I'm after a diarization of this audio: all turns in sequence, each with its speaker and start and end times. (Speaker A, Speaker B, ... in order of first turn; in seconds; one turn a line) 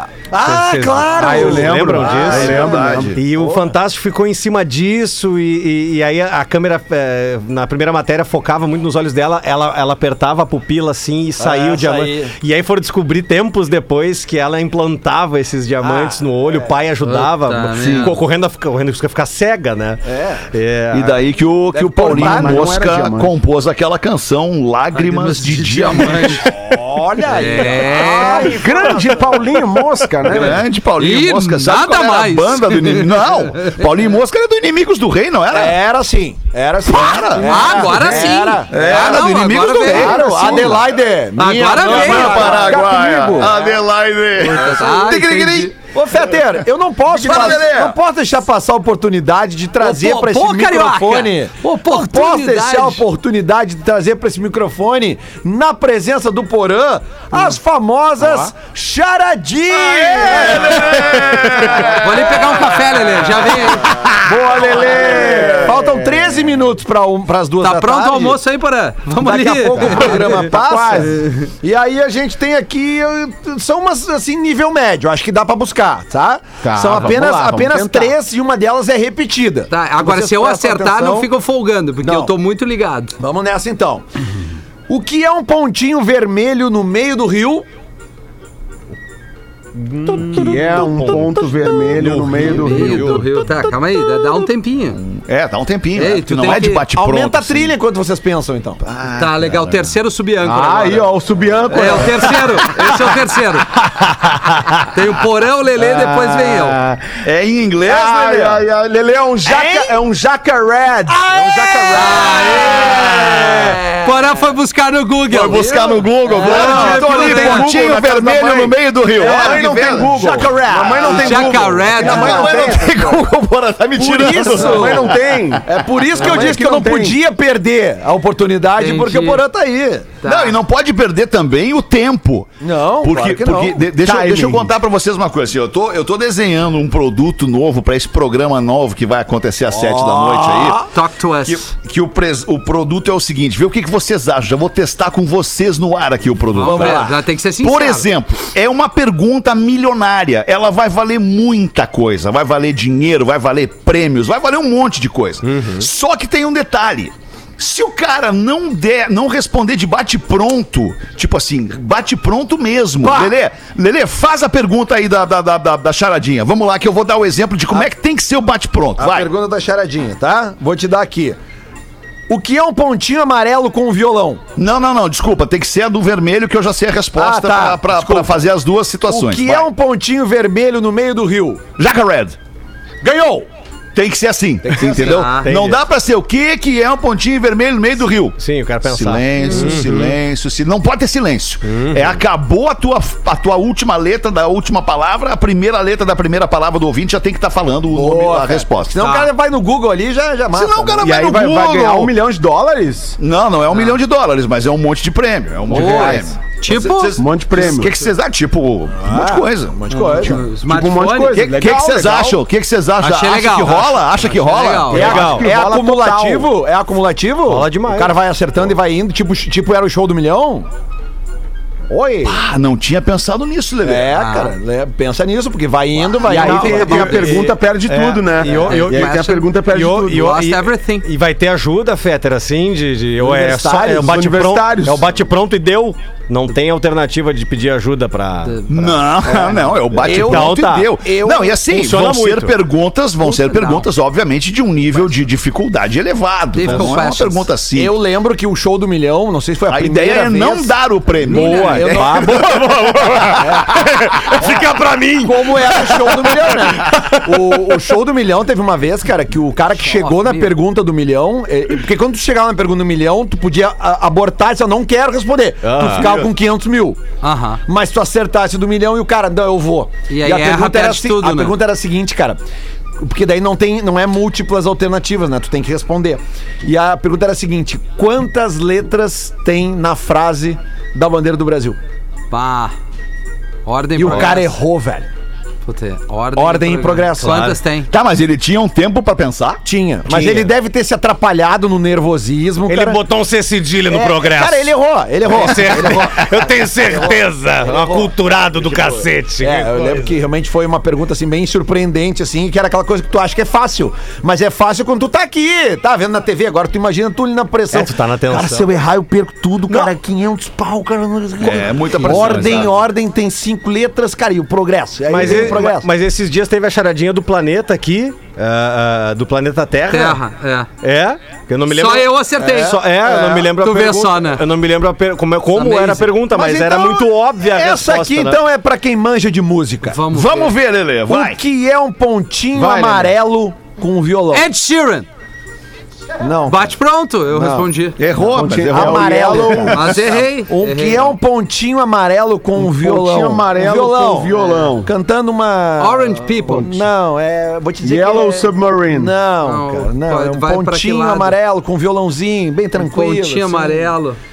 Speaker A: 0.3-2.8
Speaker B: 0.4-21.2
Speaker C: 1.2-3.2
Speaker D: 2.0-3.2
Speaker A: 3.3-3.7
Speaker A: 11.4-12.3
Speaker A: 15.8-16.8
Speaker E: 17.0-18.2
Speaker D: 17.8-18.1
Speaker A: 20.1-20.5
Speaker D: 20.9-26.5
Speaker A: 21.7-22.7
Speaker C: 21.9-23.3
Speaker E: 24.9-26.5
Speaker A: 26.5-29.0
Speaker E: 27.2-28.6
Speaker C: 28.1-30.6
Speaker D: 30.2-35.8
Speaker E: 31.0-33.7
Speaker A: 35.5-39.3
Speaker D: 36.9-37.9
Speaker E: 37.4-40.5
Speaker D: 38.7-40.7
Speaker A: 39.9-43.5
Speaker C: 39.9-40.8
Speaker E: 41.4-42.7
Speaker D: 41.8-45.8
Speaker C: 42.5-43.5
Speaker E: 44.4-45.7
Speaker A: 45.8-61.9
Speaker D: 47.1-48.0
Speaker E: 49.8-53.0
Speaker D: 59.9-62.6
Speaker E: 61.9-64.0
Speaker C: 64.2-66.2
Speaker A: 64.7-68.4
Speaker D: 64.8-65.7
Speaker E: 67.6-70.5
Speaker A: 69.2-81.3
Speaker C: 69.8-71.2
Speaker C: 76.6-78.1
Speaker E: 79.7-83.2
Speaker A: 82.0-82.3
Speaker A: 83.2-84.0
Speaker A: 84.9-87.7
Speaker B: 89.8-93.3
Speaker C: 90.0-93.2
Speaker E: 92.6-95.0
Speaker D: 95.0-97.8
Speaker E: 96.0-96.9
Speaker A: 96.9-98.8
Speaker D: 98.8-99.9
Speaker E: 99.2-101.1
Speaker C: 100.4-102.7
Speaker E: 101.7-103.7
Speaker E: 104.9-106.8
Speaker C: 105.8-107.0
Speaker D: 107.2-108.7
Speaker C: 107.8-112.9
Speaker A: 109.4-110.0
Speaker A: 111.1-114.0
Speaker E: 111.9-117.7
Speaker D: 112.8-113.3
Speaker D: 115.3-120.3
Speaker C: 116.4-123.1
Speaker A: 116.5-117.0
Speaker A: 119.2-122.8
Speaker D: 120.9-125.6
Speaker E: 121.1-122.6
Speaker A: 124.0-130.2
Speaker C: 124.3-127.2
Speaker E: 128.8-129.4
Speaker E: 130.2-130.6
Speaker D: 130.2-140.9
Speaker A: 132.6-133.8
Speaker C: 134.0-134.7
Speaker A: 139.7-140.9
Speaker E: 140.9-141.7
Speaker D: 141.4-169.3
Speaker E: 146.5-148.1
Speaker A: 146.6-147.1
Speaker B: 155.5-155.8
Speaker A: 163.0-163.3
Speaker A: 169.0-171.4
Speaker A: 172.3-174.4
Speaker D: 174.6-179.7
Speaker A: 177.2-178.4
Speaker A: 179.1-181.6
Speaker D: 181.8-182.4
Speaker A: 183.0-183.5
Speaker D: 183.9-199.1
Speaker A: 184.6-185.3
Speaker E: 184.9-185.5
Speaker B: 185.4-185.8
Speaker B: 188.4-190.2
Speaker B: 191.7-192.2
Speaker A: 197.9-201.1
Speaker D: 200.5-202.2
Speaker C: 201.0-203.2
Speaker D: 203.2-209.8
Speaker C: 205.7-206.3
Speaker E: 205.7-207.2
Speaker C: 207.2-207.9
Speaker A: 209.1-210.4
Speaker E: 209.9-211.6
Speaker C: 210.2-212.4
Speaker D: 211.3-215.1
Speaker E: 213.0-215.2
Speaker A: 214.9-220.7
Speaker C: 214.9-216.5
Speaker B: 214.9-215.5
Speaker B: 217.5-218.2
Speaker A: 221.9-222.4
Speaker D: 222.2-224.1
Speaker A: 223.8-227.5
Speaker E: 224.2-224.6
Speaker B: 226.2-239.0
Speaker C: 226.2-230.3
Speaker E: 228.5-231.1
Speaker A: 233.2-234.0
Speaker C: 233.6-235.1
Speaker D: 238.7-248.0
Speaker A: 239.4-241.6
Speaker B: 240.0-241.0
Speaker B: 241.7-242.6
Speaker E: 243.2-243.8
Speaker E: 246.5-247.5
Speaker B: 246.6-246.9
Speaker A: 247.8-250.7
Speaker D: 249.7-253.1
Speaker E: 251.3-251.9
Speaker A: 251.3-252.6
Speaker B: 251.3-257.9
Speaker A: 253.3-267.0
Speaker E: 259.8-260.6
Speaker B: 265.6-266.2
Speaker D: 266.0-266.3
Speaker E: 267.2-267.6
Speaker A: 267.7-272.4
Speaker E: 270.1-271.6
Speaker A: 273.0-281.8
Speaker E: 282.3-282.8
Speaker E: 283.7-284.5
Speaker A: 284.0-285.1
Speaker E: 285.6-287.9
Speaker A: 286.4-287.6
Speaker D: 287.9-289.6
Speaker A: 289.6-293.0
Speaker B: 290.1-290.5
Speaker B: 292.7-294.7
Speaker A: 293.9-315.9
Speaker B: 295.2-300.1
Speaker B: 307.7-308.7
Speaker D: 311.4-312.7
Speaker B: 312.0-312.7
Speaker B: 315.1-320.2
Speaker E: 319.9-320.7
Speaker B: 320.8-328.4
Speaker E: 321.7-324.4
Speaker A: 322.5-323.4
Speaker E: 325.5-326.1
Speaker A: 326.3-330.0
Speaker E: 329.9-330.5
Speaker D: 330.1-331.4
Speaker A: 331.1-334.5
Speaker C: 332.5-333.1
Speaker E: 334.3-335.1
Speaker A: 336.2-336.7
Speaker E: 336.5-338.0
Speaker A: 337.3-337.7
Speaker D: 338.0-340.2
Speaker C: 338.2-339.9
Speaker A: 338.4-353.9
Speaker E: 339.7-341.1
Speaker C: 342.6-344.9
Speaker E: 345.8-346.9
Speaker C: 347.8-349.1
Speaker E: 349.4-351.4
Speaker E: 352.8-354.2